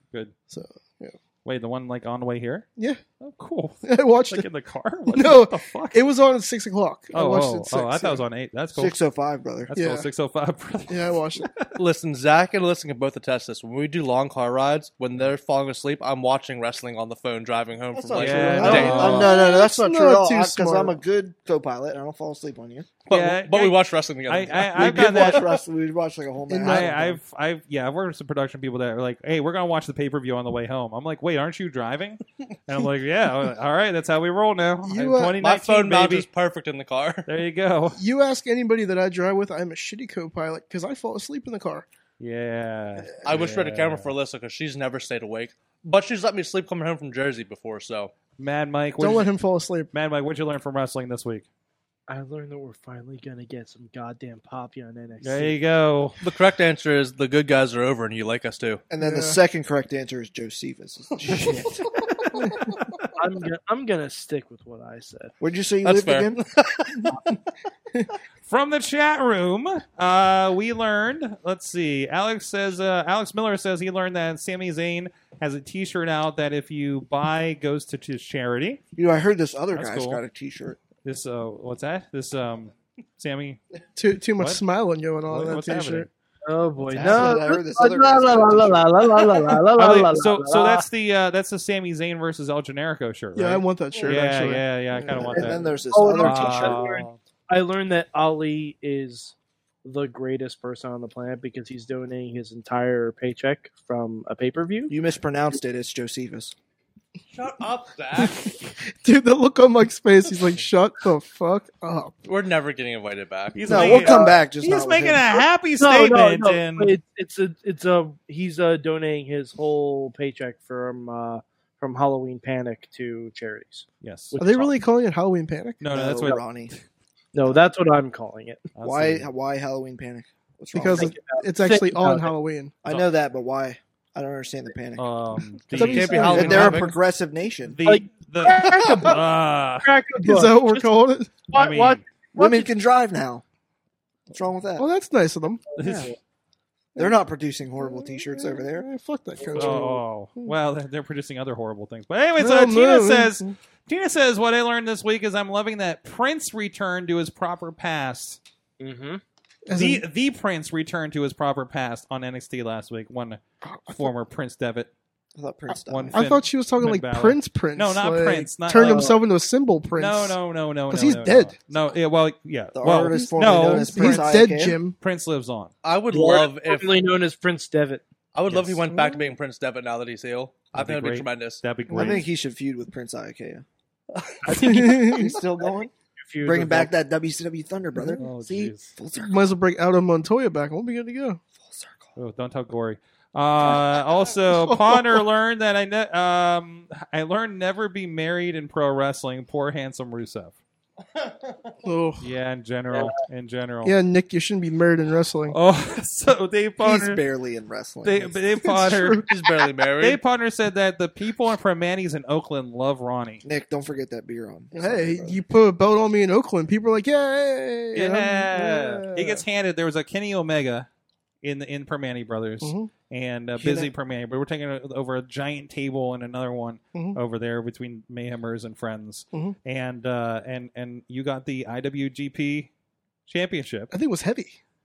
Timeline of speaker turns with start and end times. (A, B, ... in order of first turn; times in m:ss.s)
0:00.5-0:01.2 A
0:01.4-0:02.7 B
0:03.2-0:06.0 B
0:03.8-0:04.5 A
0:05.1-0:08.2 A
0:07.1-0:09.0 B
0:08.8-0:09.7 C
0:09.7-0:11.7 B
0:09.7-0:10.1 A
0:10.9-0:11.5 A
0:11.8-0:19.3 D
0:17.9-0:22.9 C
0:18.1-0:19.4 B
0:18.4-0:21.0 A
0:23.1-0:25.6 D
0:23.1-0:25.5 B
0:24.7-0:27.2 C
0:26.5-0:27.0 A
0:26.6-0:36.3 B
0:34.8-0:35.4 A
0:35.4-0:37.3 D
0:37.3-0:38.0 B
0:38.0-0:41.9 A
0:42.2-0:44.1 B
0:43.2-0:48.1 D
0:48.4-0:49.3 B
0:49.0-0:49.9 A
0:49.9-0:51.5 B
0:52.1-0:55.6 E
0:55.2-0:56.2 B
0:56.2-0:58.8 D
0:58.9-1:02.4 C
0:59.0-0:59.4 A
1:02.4-1:02.7 A
1:03.2-1:05.3 E
1:05.4-1:06.4 C
1:05.8-1:07.4 D
1:08.5-1:18.8 B
1:19.0-1:20.8 C
1:19.7-1:20.2 B
1:21.0-1:23.6 B
1:24.0-1:26.1 A
1:25.3-1:26.1 B
1:26.4-1:30.8 E
1:26.8-1:29.4 C
1:29.8-1:35.6 B
1:33.4-1:35.4 A
1:34.9-1:36.8 C
1:35.4-1:45.0 E
1:36.2-1:37.2 B
1:44.9-1:46.6 C
1:47.3-1:48.5 D
1:48.2-1:52.2 A
1:52.2-1:53.6 D
1:53.5-1:57.0 B
1:53.7-1:55.3 C
1:53.7-1:54.3 A
1:55.8-2:03.9 E
2:04.0-2:04.7 B
2:04.4-2:04.7 E
2:04.4-2:05.8 A
2:05.8-2:06.8 B
2:05.9-2:06.7 C
2:07.3-2:08.6 E
2:08.8-2:09.3 B
2:08.8-2:11.2 C
2:10.7-2:12.8 A
2:10.9-2:12.3 E
2:12.8-2:15.1 C
2:15.0-2:16.7 B
2:15.7-2:16.8 A
2:15.8-2:17.0 D
2:16.3-2:17.8 C
2:17.7-2:19.9 B
2:17.9-2:19.3 E
2:19.8-2:20.9 E
2:20.2-2:21.4 A
2:21.5-2:22.7 E
2:21.5-2:22.0 B
2:22.4-2:23.4 C
2:24.3-2:24.9 C
2:24.8-2:25.6 A
2:25.7-2:26.2 E
2:25.8-2:26.1 B
2:27.0-2:28.9 C
2:27.8-2:30.5 A
2:29.5-2:29.8 E
2:29.6-2:38.4 B
2:32.4-2:33.5 A
2:38.8-2:39.2 E
2:39.7-2:40.0 A
2:39.7-2:43.4 B
2:43.6-2:44.1 A
2:43.9-2:44.9 B
2:45.4-2:46.2 C
2:45.9-2:49.2 B
2:46.1-2:51.6 A
2:48.8-2:49.2 E
2:50.0-2:54.3 B
2:52.7-2:54.8 C
2:53.1-2:55.0 A
2:55.0-2:55.7 B
2:55.8-2:57.0 D
2:56.1-2:58.0 E
2:58.3-3:01.6 D
2:58.5-2:58.8 B
2:59.0-2:59.2 A
3:00.7-3:02.2 B
3:01.9-3:03.6 C
3:01.9-3:02.2 A
3:04.2-3:04.4 D
3:04.5-3:05.9 C
3:04.5-3:05.3 E
3:04.5-3:05.3 A
3:06.2-3:06.9 E
3:06.4-3:09.4 C
3:08.0-3:08.2 A
3:08.2-3:08.9 B
3:09.2-3:11.4 A
3:11.6-3:12.1 C
3:12.2-3:20.6 B
3:14.5-3:15.2 A
3:21.2-3:21.7 D
3:21.8-3:22.3 A
3:22.2-3:24.0 B
3:23.8-3:25.6 A
3:25.5-3:27.2 B
3:26.8-3:28.4 C
3:28.0-3:29.3 B
3:28.6-3:29.3 A
3:29.3-3:30.2 D
3:30.0-3:33.4 B
3:33.4-3:35.4 C
3:34.7-3:39.4 A
3:37.9-3:40.9 B
3:41.4-3:52.7 B
3:42.6-3:42.9 A
3:43.6-3:43.9 C
3:53.3-3:53.9 B
3:53.9-3:54.6 A